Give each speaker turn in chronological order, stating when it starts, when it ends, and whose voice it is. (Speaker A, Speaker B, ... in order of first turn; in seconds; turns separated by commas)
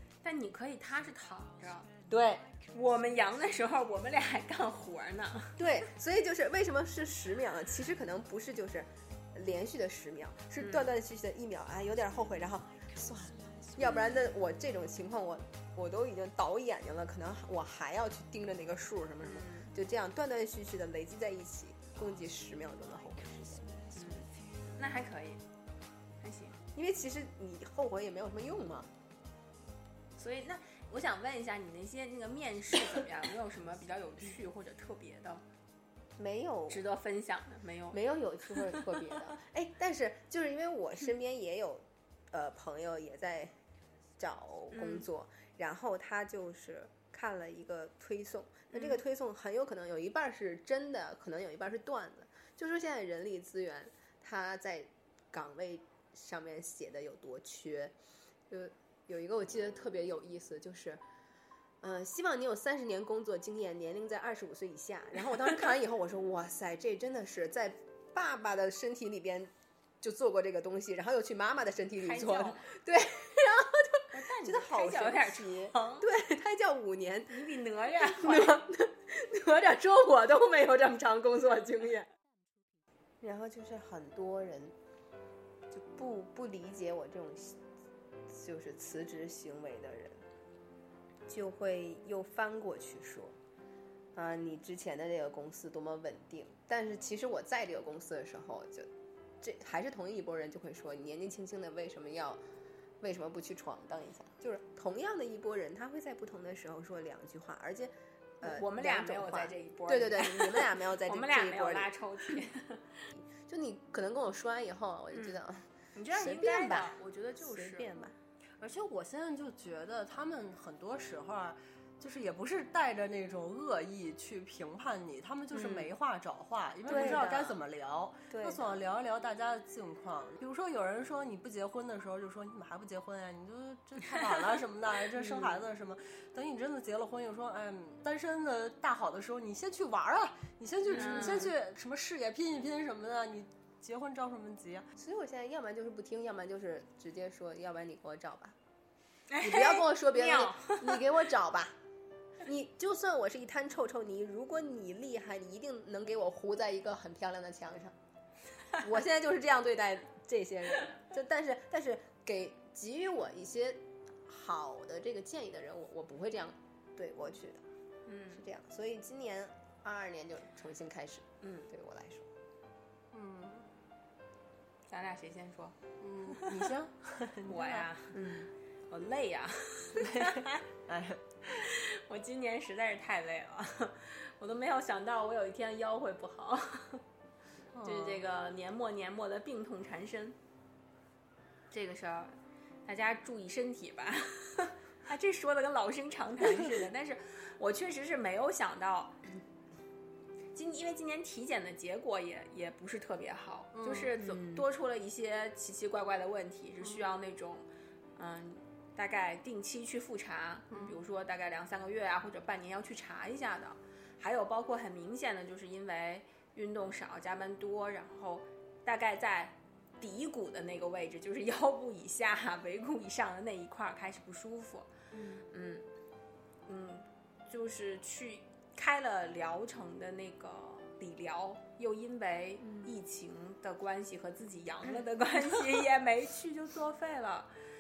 Speaker A: 0.2-1.9, Speaker B: 2.1-2.5, Speaker A: 2.7-5.6, Speaker B: 5.6-23.9, Speaker A: 10.6-10.9, Speaker A: 19.2-19.7, Speaker A: 23.9-25.4, Speaker A: 26.2-26.6, Speaker B: 26.8-28.9, Speaker A: 30.2-35.4, Speaker B: 36.2-36.8, Speaker A: 36.7-38.0, Speaker B: 37.9-43.5, Speaker A: 38.5-38.8, Speaker B: 44.2-57.9, Speaker A: 44.7-45.1, Speaker A: 48.7-49.0, Speaker B: 58.5-61.0, Speaker B: 61.8-69.5, Speaker B: 70.0-77.4, Speaker A: 72.0-72.7, Speaker A: 74.1-76.1, Speaker A: 77.3-78.6, Speaker B: 78.0-82.0, Speaker B: 83.2-84.8, Speaker B: 85.7-87.6, Speaker B: 88.3-90.2, Speaker B: 91.3-93.3, Speaker B: 94.2-98.9, Speaker B: 99.4-102.4, Speaker B: 103.0-111.9, Speaker A: 108.4-113.0, Speaker B: 113.2-118.1, Speaker A: 115.1-115.4, Speaker A: 116.0-117.9, Speaker C: 118.6-144.9, Speaker B: 125.5-125.9, Speaker B: 126.9-127.6, Speaker A: 126.9-127.3, Speaker B: 128.3-128.6, Speaker B: 135.2-135.5, Speaker A: 140.9-141.5, Speaker B: 141.0-141.5, Speaker B: 145.0-148.6, Speaker A: 149.3-151.0, Speaker B: 149.4-151.8, Speaker B: 152.4-157.9, Speaker B: 158.8-167.6, Speaker A: 168.1-168.4, Speaker B: 168.3-172.3, Speaker A: 171.4-171.7, Speaker C: 173.1-173.7, Speaker A: 174.9-175.8, Speaker C: 176.0-177.9, Speaker A: 177.5-178.2, Speaker B: 178.1-178.5, Speaker A: 178.9-180.6, Speaker C: 180.0-181.7, Speaker A: 181.6-187.0, Speaker C: 187.7-188.2, Speaker A: 187.8-190.4, Speaker A: 191.7-199.2, Speaker A: 200.5-224.9, Speaker C: 203.7-204.1, Speaker B: 204.2-204.6, Speaker B: 225.1-225.4, Speaker A: 225.5-225.8, Speaker A: 226.7-237.5, Speaker B: 232.6-232.9